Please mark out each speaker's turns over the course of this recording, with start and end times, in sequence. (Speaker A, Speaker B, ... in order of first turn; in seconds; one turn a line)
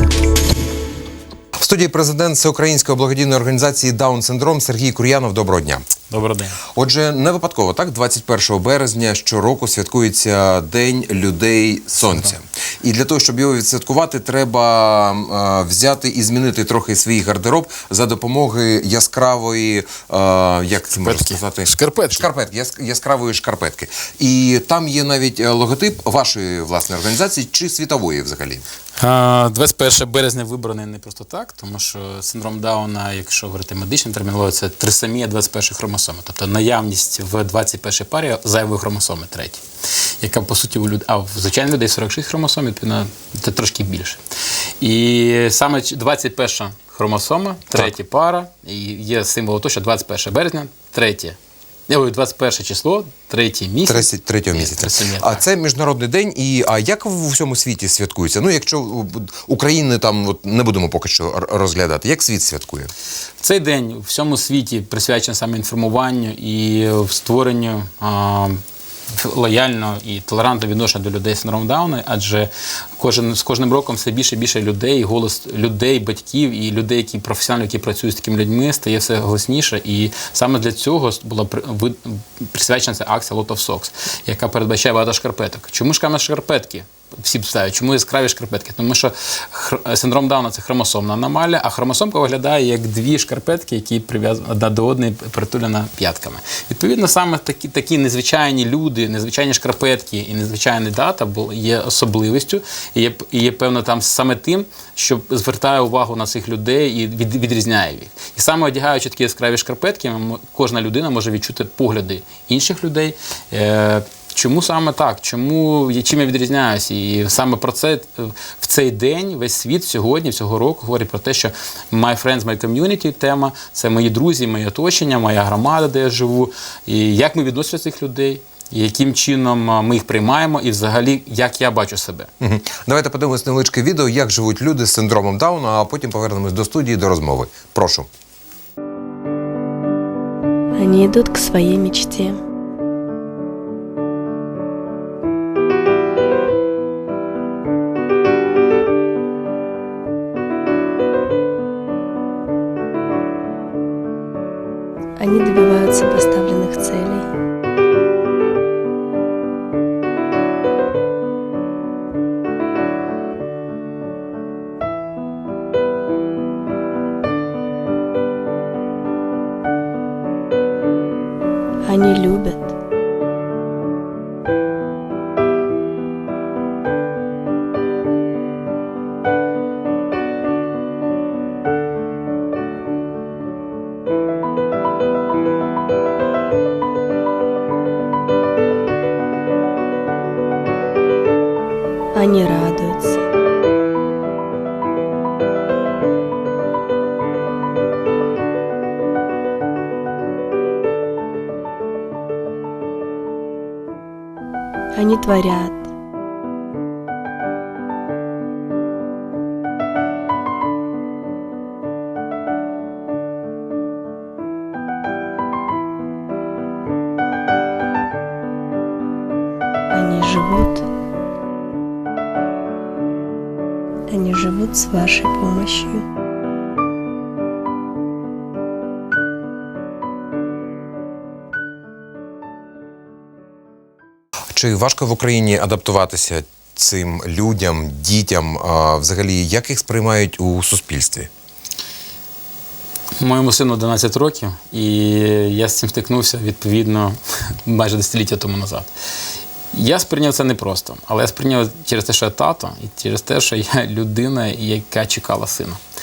Speaker A: 1.6-5.9
Speaker B: 6.1-6.6
Speaker A: 6.7-28.6
Speaker B: 12.0-12.3
Speaker B: 20.9-22.3
Speaker B: 29.0-39.6
Speaker B: 40.2-44.2
Speaker B: 44.8-51.4
Speaker B: 51.9-55.4
Speaker A: 53.9-62.9
Speaker B: 63.4-68.6
Speaker B: 69.1-132.3
Speaker A: 132.4-138.1
Speaker C: 140.8-142.4
Speaker C: 155.2-157.3
Speaker C: 171.8-172.7
Speaker C: 192.2-193.2
Speaker C: 205.0-205.9
Speaker C: 219.9-220.8
Speaker C: 224.1-226.0
Speaker A: 234.5-241.3
Speaker B: 243.2-248.9
Speaker B: 249.7-255.8